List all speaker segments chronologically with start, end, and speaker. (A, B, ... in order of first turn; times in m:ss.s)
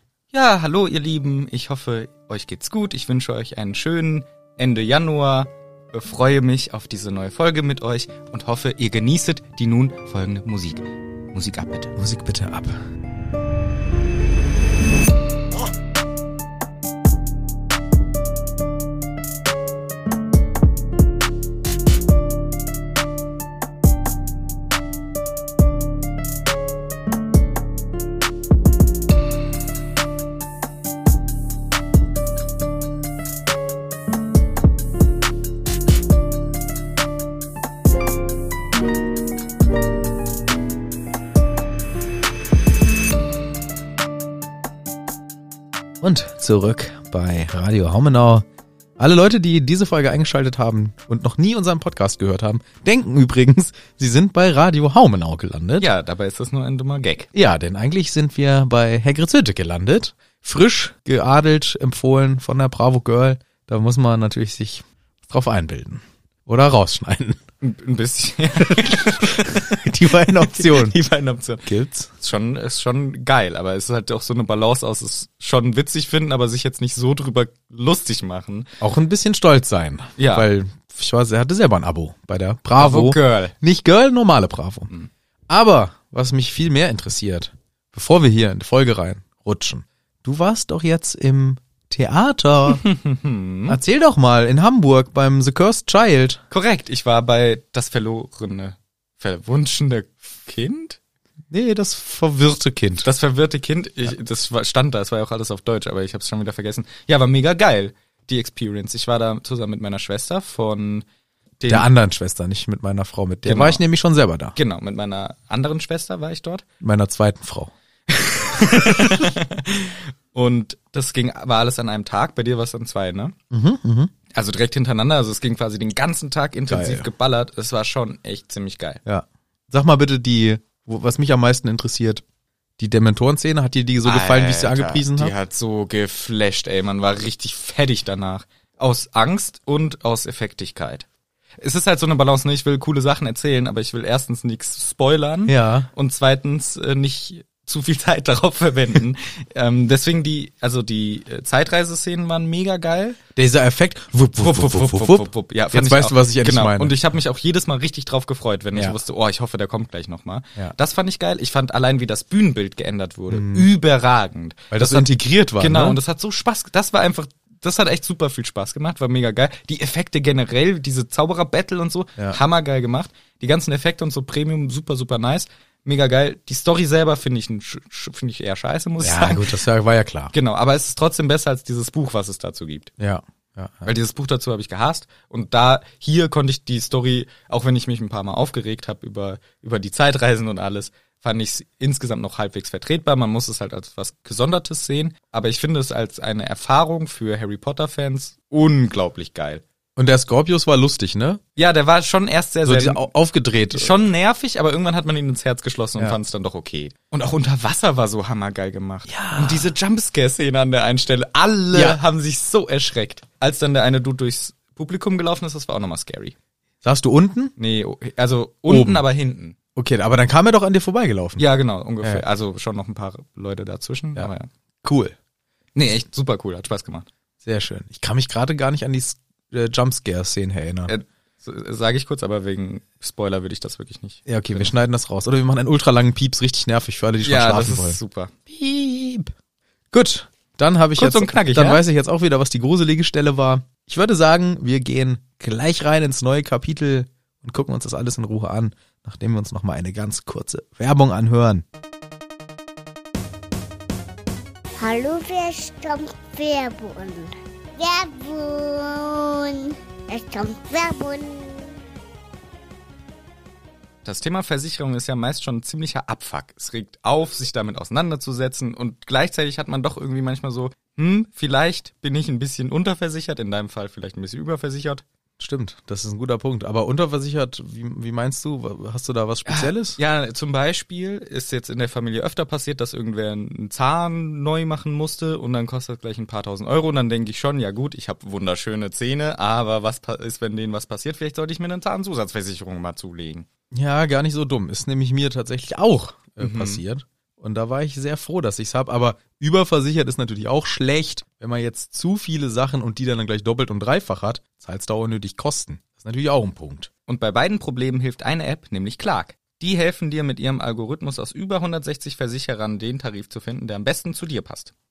0:00.3-0:11.9 A
0:12.0-0:12.8 B
0:46.0-0:48.4 B
0:49.0-0:55.9 B
0:55.8-0:57.3 A
0:57.3-1:07.4 B
1:07.6-1:18.7 A
1:08.7-1:11.0 B
1:11.6-1:12.1 B
1:18.8-1:24.9 B
1:20.2-1:20.5 A
1:22.8-1:23.5 A
1:25.5-1:32.8 B
1:32.7-1:33.8 A
1:33.7-1:36.4 B
1:36.5-1:41.0 A
1:41.5-1:43.1 B
1:43.0-1:51.0 A
1:51.6-1:51.9 A
1:51.7-1:54.6 B
1:53.4-1:53.8 A
1:54.6-1:56.6 A
1:56.8-1:57.7 B
1:58.1-2:03.3 A
2:03.5-2:04.1 B
2:04.3-2:09.0 A
2:06.7-2:07.1 B
2:09.0-2:12.2 B
2:12.8-2:15.3 B
2:14.0-2:21.1 A
2:21.6-2:33.2 A
2:25.4-2:25.9 B
2:33.4-2:37.0 B
2:34.4-2:59.6 A
2:38.7-2:39.0 B
2:43.3-2:43.7 B
2:44.7-2:46.0 B
2:59.0-3:00.3 B
3:00.3-3:02.9 A
3:03.0-3:03.9 B
3:03.8-3:19.6 A
3:20.0-3:21.4 B
3:21.6-3:23.0 A
3:22.6-3:24.0 B
3:23.7-3:36.3 A
3:29.1-3:29.7 B
3:31.7-3:32.0 B
3:36.8-3:37.5 B
3:37.6-3:39.6 A
3:38.7-3:39.0 B
3:39.8-3:41.4 B
3:41.4-3:44.5 A
3:44.8-3:45.1 B
3:45.7-3:47.1 A
3:47.4-3:50.9 B
3:50.9-3:54.7 A
3:54.2-3:59.3 B
3:57.2-3:58.3 A
3:59.9-4:11.6 B
4:01.0-4:01.8 A
4:14.8-4:21.8 C
4:24.0-4:35.0 A
4:35.4-4:40.0 B
4:39.5-4:53.4 A
4:53.7-5:06.9 B
4:56.4-4:56.8 A
5:07.1-5:14.7 A